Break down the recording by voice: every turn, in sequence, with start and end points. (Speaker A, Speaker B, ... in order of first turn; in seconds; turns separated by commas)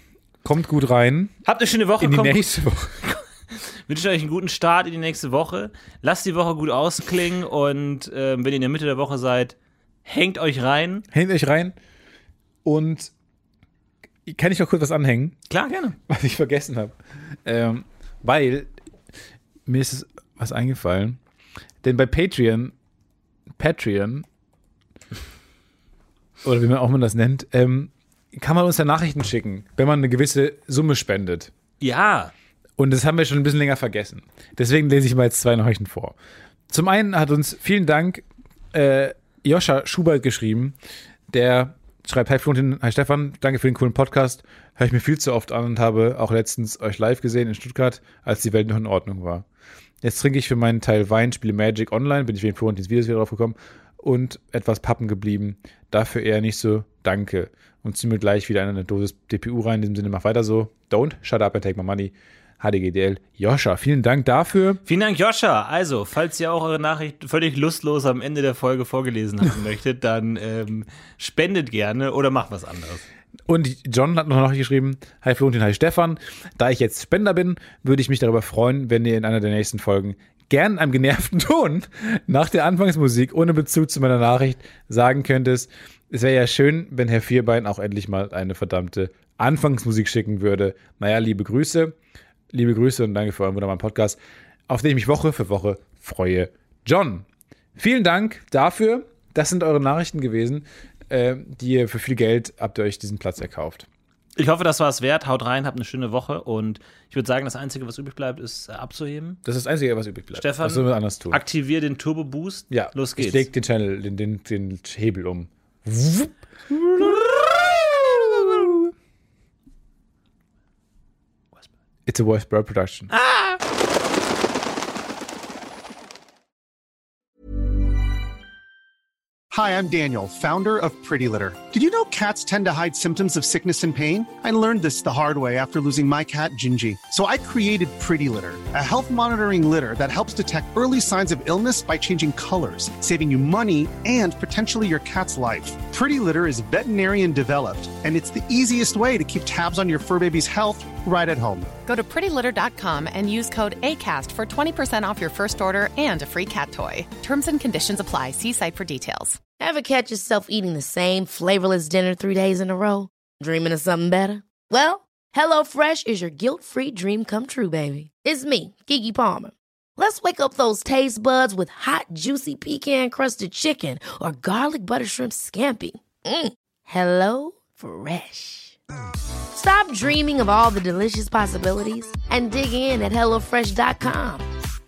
Speaker A: 0.4-1.3, Speaker B: 1.4-3.2, Speaker A: 2.0-3.0, Speaker B: 3.9-11.1, Speaker A: 11.1-11.7, Speaker A: 12.6-13.1, Speaker A: 14.3-15.4, Speaker B: 15.5-15.9, Speaker A: 16.1-18.7, Speaker A: 19.7-21.2, Speaker A: 21.8-22.7, Speaker A: 23.6-24.3, Speaker A: 26.4-31.5, Speaker B: 31.8-32.3, Speaker A: 32.8-36.2, Speaker A: 36.7-40.8, Speaker A: 41.3-49.5, Speaker A: 50.0-64.8, Speaker B: 64.8-73.0, Speaker A: 73.5-92.0, Speaker A: 92.5-94.2, Speaker A: 94.7-103.9, Speaker B: 104.4-109.4, Speaker A: 109.5-111.4, Speaker B: 110.3-113.5, Speaker A: 112.7-118.9, Speaker A: 122.0-123.1, Speaker B: 123.1-123.6, Speaker C: 129.5-151.7, Speaker D: 151.9-159.4, Speaker E: 159.6-178.8, Speaker E: 179.5-184.5